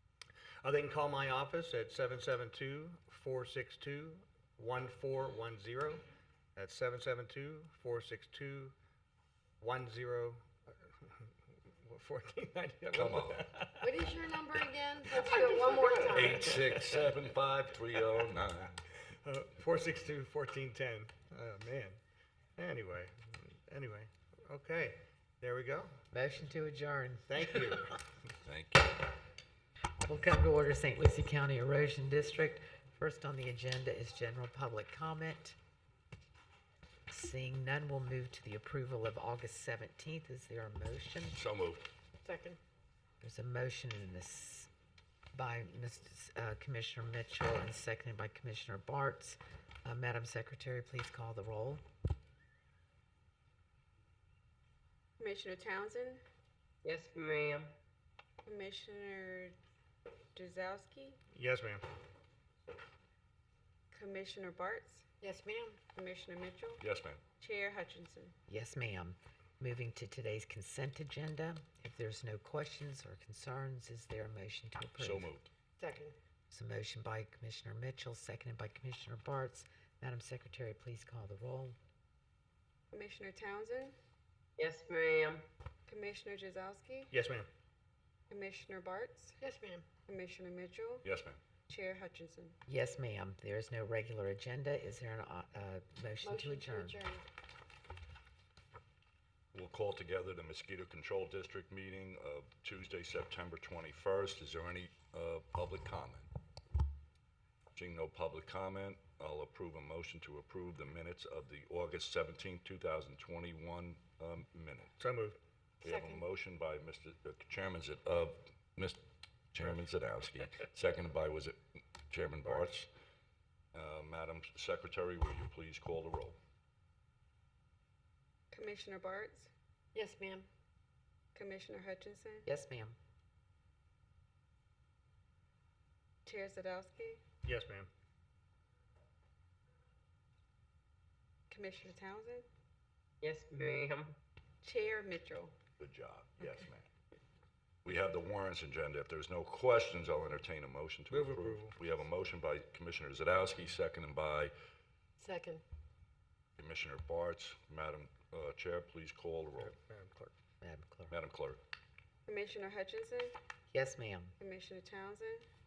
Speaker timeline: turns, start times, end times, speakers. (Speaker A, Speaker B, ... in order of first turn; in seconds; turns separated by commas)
Speaker A: 0.6-6.0, Speaker A: 6.5-8.8, Speaker A: 9.6-11.3, Speaker A: 11.8-14.0, Speaker B: 12.9-13.4, Speaker C: 13.8-16.7, Speaker A: 15.3-16.0, Speaker B: 16.0-18.7, Speaker A: 16.7-17.1, Speaker A: 19.2-22.0, Speaker A: 22.6-25.9, Speaker D: 26.1-27.9, Speaker A: 27.3-28.0, Speaker B: 28.4-29.1, Speaker D: 30.0-35.6, Speaker D: 37.1-41.4, Speaker B: 41.3-41.8, Speaker C: 42.2-42.6, Speaker D: 43.2-44.7, Speaker D: 45.3-51.8, Speaker E: 55.2-56.2, Speaker F: 56.8-57.7, Speaker E: 58.4-59.5, Speaker E: 60.3-61.2, Speaker A: 61.3-61.8, Speaker E: 63.9-65.0, Speaker C: 65.2-65.8, Speaker E: 65.9-66.8, Speaker B: 66.8-67.2, Speaker E: 67.4-68.3, Speaker D: 68.5-75.3, Speaker B: 75.0-75.5, Speaker C: 75.8-76.2, Speaker D: 76.5-81.8, Speaker E: 82.9-84.0, Speaker F: 84.6-85.4, Speaker E: 85.9-87.1, Speaker A: 87.1-87.5, Speaker E: 88.3-89.4, Speaker C: 89.4-89.8, Speaker E: 90.1-91.1, Speaker B: 91.0-91.4, Speaker E: 91.7-92.6, Speaker D: 92.7-97.0, Speaker C: 96.2-97.2, Speaker B: 99.5-106.3, Speaker B: 107.8-115.0, Speaker A: 115.0-115.4, Speaker B: 115.8-122.9, Speaker C: 115.8-116.2, Speaker A: 122.4-122.7, Speaker B: 123.7-126.4, Speaker E: 128.5-129.5, Speaker C: 129.9-130.5, Speaker E: 131.3-132.5, Speaker D: 132.4-133.0, Speaker E: 136.2-137.2, Speaker A: 137.4-137.9, Speaker E: 141.5-142.5, Speaker F: 143.2-144.2, Speaker E: 144.6-145.6, Speaker B: 145.8-146.9, Speaker B: 147.8-154.5, Speaker A: 151.1-151.8, Speaker C: 155.2-155.6, Speaker B: 156.6-159.7, Speaker A: 159.6-160.3, Speaker D: 160.6-161.2, Speaker B: 161.1-161.6, Speaker E: 162.3-163.3, Speaker D: 163.7-164.3, Speaker E: 164.4-165.5